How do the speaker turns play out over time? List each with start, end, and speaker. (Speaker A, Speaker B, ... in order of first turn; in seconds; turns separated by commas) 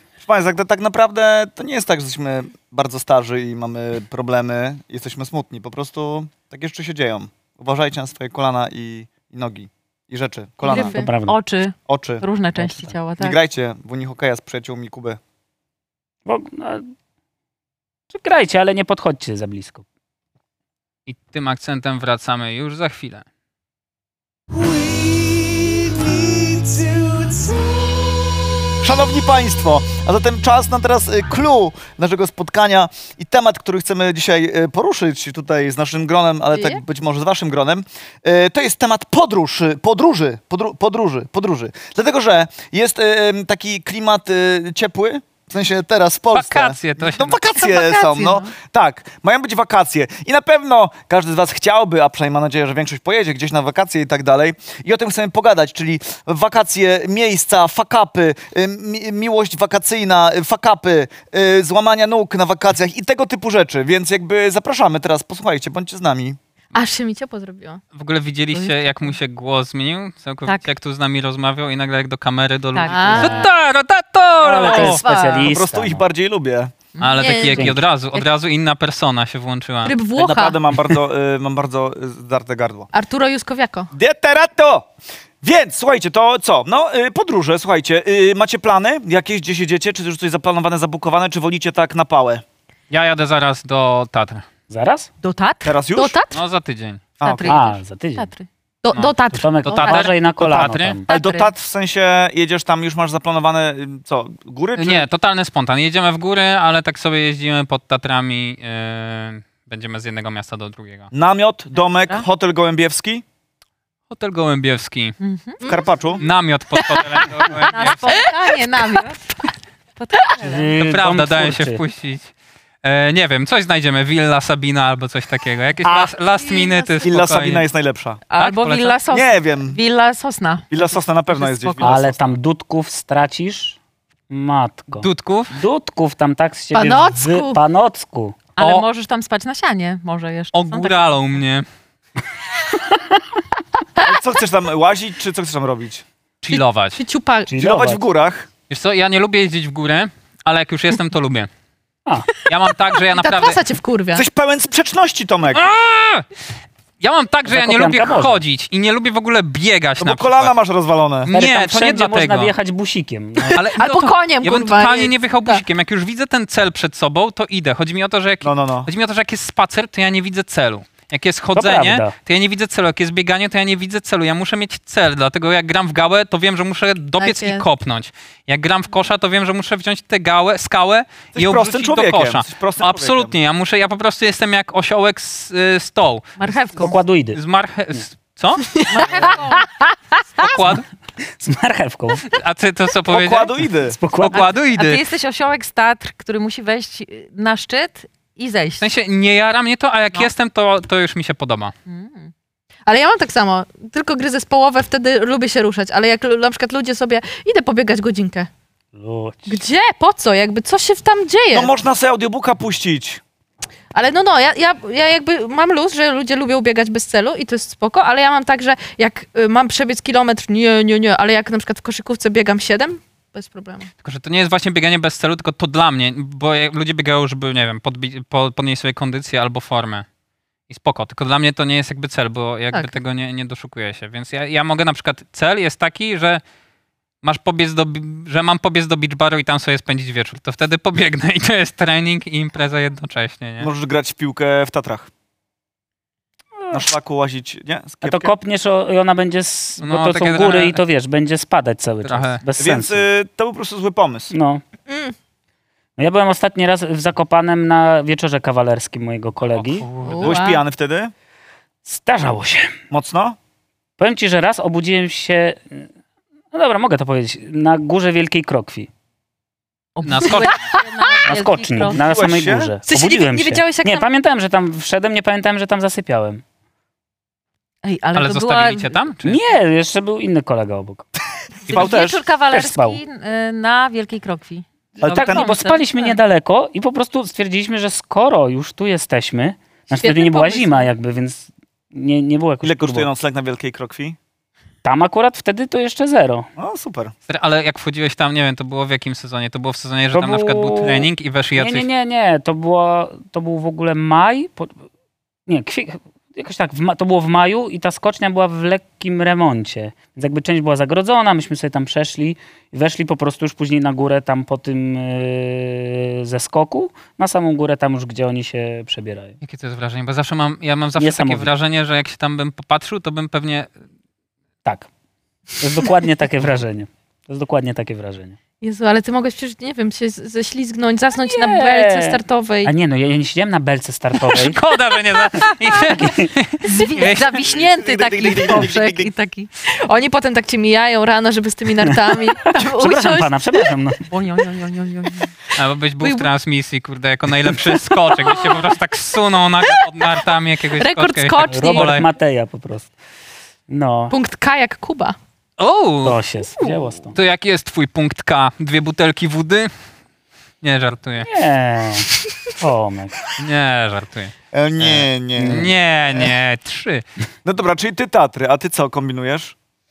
Speaker A: 0.2-11.0, Speaker B: 10.6-11.1, Speaker C: 10.7-11.4, Speaker D: 11.1-13.4, Speaker A: 11.9-12.3, Speaker C: 12.6-12.9, Speaker A: 13.2-15.2, Speaker C: 16.3-16.9, Speaker C: 18.1-19.9, Speaker E: 21.1-23.2, Speaker A: 24.6-27.4, Speaker A: 28.8-66.4, Speaker B: 36.5-36.8, Speaker E: 46.3-47.4, Speaker D: 47.5-48.5, Speaker B: 66.7-67.8, Speaker E: 67.9-75.0, Speaker D: 68.5-69.1, Speaker D: 72.7-73.5, Speaker B: 72.9-73.5, Speaker C: 73.2-73.5, Speaker C: 74.4-76.0, Speaker B: 74.6-75.5, Speaker A: 75.4-76.8, Speaker D: 77.0-77.4, Speaker E: 77.0-80.0, Speaker B: 77.2-77.7, Speaker B: 79.8-80.6, Speaker A: 80.2-82.9, Speaker B: 82.9-83.9, Speaker A: 83.9-84.9, Speaker A: 85.4-92.4, Speaker E: 92.9-94.5, Speaker C: 94.7-95.1, Speaker D: 95.2-96.0, Speaker A: 95.7-96.2, Speaker B: 96.0-96.4, Speaker E: 96.3-97.0, Speaker A: 97.2-97.6, Speaker D: 97.2-98.5, Speaker C: 97.4-98.3, Speaker B: 98.8-100.1, Speaker C: 99.3-101.0, Speaker E: 99.7-101.0, Speaker D: 101.1-101.5, Speaker A: 101.1-105.1, Speaker E: 104.8-111.1, Speaker A: 111.1-113.2, Speaker E: 114.1-115.2, Speaker D: 115.2-115.7, Speaker A: 115.7-116.2, Speaker E: 116.2-118.3, Speaker D: 117.6-119.3, Speaker D: 120.0-120.7, Speaker C: 120.4-121.8, Speaker E: 120.8-122.3, Speaker E: 122.8-127.7, Speaker A: 127.0-128.2, Speaker D: 128.3-132.0, Speaker E: 128.4-129.0, Speaker A: 129.1-129.8, Speaker A: 130.7-132.3, Speaker C: 131.8-133.8, Speaker C: 134.3-138.4, Speaker E: 135.0-135.5, Speaker B: 136.7-137.6, Speaker D: 138.6-141.0, Speaker E: 138.6-138.8, Speaker E: 140.5-141.7, Speaker A: 144.0-146.0, Speaker E: 146.4-147.0, Speaker B: 146.5-147.5, Speaker C: 147.5-148.0, Speaker A: 147.6-148.5, Speaker E: 148.7-151.5, Speaker E: 152.4-153.6, Speaker B: 153.2-154.2, Speaker A: 154.2-155.7, Speaker E: 155.5-156.3, Speaker E: 157.0-160.5, Speaker C: 157.5-158.4, Speaker A: 160.0-161.3, Speaker E: 161.2-162.5, Speaker C: 161.3-163.6, Speaker B: 163.4-165.6, Speaker E: 163.5-186.4, Speaker A: 168.4-168.9, Speaker C: 171.6-172.2, Speaker B: 177.2-177.7, Speaker A: 181.3-183.3, Speaker D: 186.4-187.0, Speaker C: 186.8-187.4, Speaker E: 187.3-189.3, Speaker D: 188.9-189.7, Speaker E: 190.4-190.8, Speaker C: 191.3-192.3, Speaker E: 192.3-193.6, Speaker A: 193.1-194.0, Speaker C: 193.9-194.5, Speaker E: 194.2-195.0, Speaker D: 194.3-198.9, Speaker E: 198.8-201.7, Speaker D: 201.9-202.3, Speaker B: 202.9-208.5, Speaker C: 208.9-209.6, Speaker B: 209.5-211.7, Speaker A: 211.5-213.2, Speaker B: 213.9-223.9, Speaker E: 224.0-230.1, Speaker E: 230.7-236.4, Speaker E: 237.2-243.7, Speaker A: 243.6-245.1, Speaker C: 246.6-246.9, Speaker A: 246.7-248.3, Speaker C: 248.0-253.1, Speaker E: 249.8-250.8, Speaker E: 252.0-252.4, Speaker A: 252.6-254.3, Speaker C: 254.3-254.6, Speaker B: 254.9-255.1, Speaker C: 256.0-259.9, Speaker E: 259.5-260.4, Speaker B: 260.0-260.6, Speaker A: 260.2-261.1, Speaker C: 261.9-262.8, Speaker A: 262.9-263.4, Speaker C: 264.0-265.9, Speaker C: 266.5-268.9, Speaker D: 270.0-272.0, Speaker E: 270.0-270.7, Speaker B: 270.7-271.9, Speaker C: 271.2-276.4, Speaker A: 271.9-272.7, Speaker B: 272.9-274.1, Speaker D: 277.8-279.0, Speaker E: 278.1-279.4, Speaker C: 279.2-281.1, Speaker D: 281.7-286.2, Speaker A: 281.7-282.3, Speaker C: 282.5-283.0, Speaker C: 285.0-293.1, Speaker A: 285.0-285.5, Speaker B: 290.0-290.9, Speaker A: 292.6-294.2, Speaker C: 294.8-296.5, Speaker A: 296.6-297.1, Speaker E: 297.3-301.9, Speaker C: 300.1-304.8, Speaker C: 305.5-319.4, Speaker E: 319.4-323.7, Speaker C: 321.0-321.5, Speaker C: 325.6-328.4, Speaker B: 328.6-332.7, Speaker C: 331.3-334.6, Speaker E: 334.3-337.4, Speaker C: 336.0-336.3, Speaker D: 336.6-339.5, Speaker A: 337.5-339.1, Speaker B: 339.9-343.3, Speaker C: 342.5-344.1, Speaker D: 344.1-345.3, Speaker E: 345.6-352.1, Speaker B: 350.8-351.9, Speaker C: 351.5-352.9, Speaker C: 353.7-354.1, Speaker B: 354.1-355.2, Speaker E: 355.6-356.2, Speaker C: 356.0-357.2, Speaker E: 357.1-359.7, Speaker E: 360.6-361.3, Speaker C: 361.2-363.1, Speaker E: 363.4-367.1, Speaker A: 364.5-366.4, Speaker C: 365.4-365.7, Speaker A: 367.4-369.5